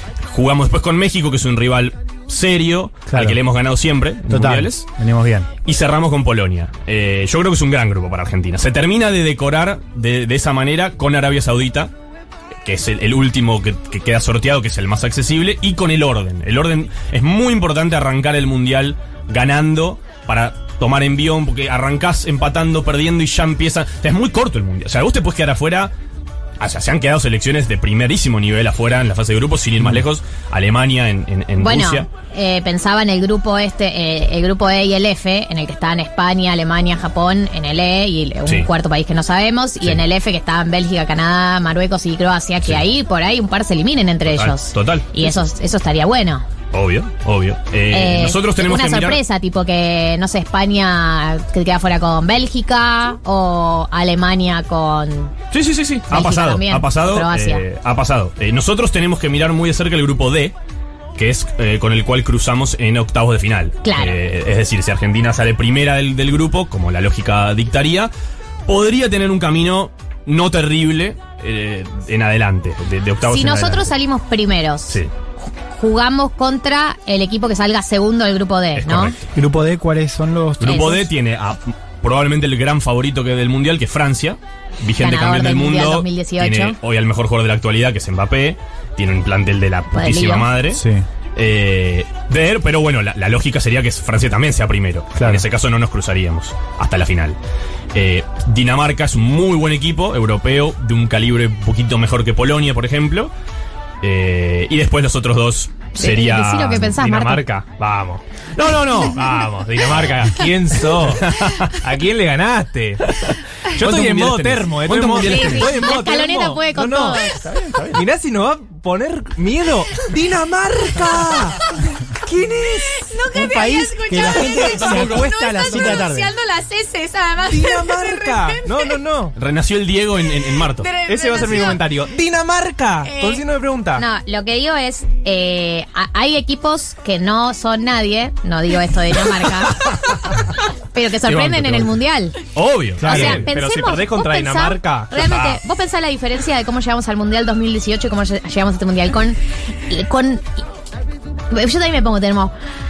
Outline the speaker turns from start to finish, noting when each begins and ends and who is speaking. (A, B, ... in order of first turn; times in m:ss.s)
0:00.2-0:04.9 A
0:03.1-0:03.4 B
0:04.3-0:05.5 B
0:05.6-0:11.9 A
0:12.6-0:25.9 A
0:26.6-0:32.1 A
0:31.6-0:46.4 C
0:44.2-0:45.4 A
0:46.7-0:49.2 A
0:47.9-0:55.3 C
0:55.5-1:00.6 A
0:56.1-0:57.6 C
1:01.2-1:08.1 A
1:03.8-1:04.2 C
1:08.6-1:13.9 A
1:13.3-1:15.0 C
1:15.7-1:19.2 C
1:18.8-1:19.3 A
1:19.4-1:21.1 B
1:20.6-1:30.8 A
1:20.6-1:21.0 C
1:25.0-1:26.8 C
1:29.9-1:30.5 C
1:30.7-1:31.0 B
1:31.4-1:37.4 A
1:35.2-1:35.4 B
1:37.9-1:43.3 A
1:44.0-1:47.0 A
1:45.9-1:47.4 C
1:46.9-1:53.0 D
1:48.6-1:49.2 A
1:51.0-1:51.7 A
1:53.7-1:57.2 D
1:53.8-1:55.8 A
1:55.2-1:55.9 E
1:55.4-1:57.5 C
1:57.4-1:58.0 A
1:57.9-2:03.1 D
2:02.6-2:09.0 E
2:03.3-2:06.3 B
2:04.6-2:05.2 D
2:07.4-2:09.4 D
2:09.4-2:10.9 A
2:10.5-2:11.9 E
2:11.1-2:14.0 D
2:13.0-2:13.4 E
2:14.0-2:22.4 C
2:21.2-2:22.0 A
2:22.6-2:23.4 A
2:23.0-2:23.4 B
2:23.0-2:30.4 C
2:23.0-2:25.6 D
2:31.5-2:32.5 C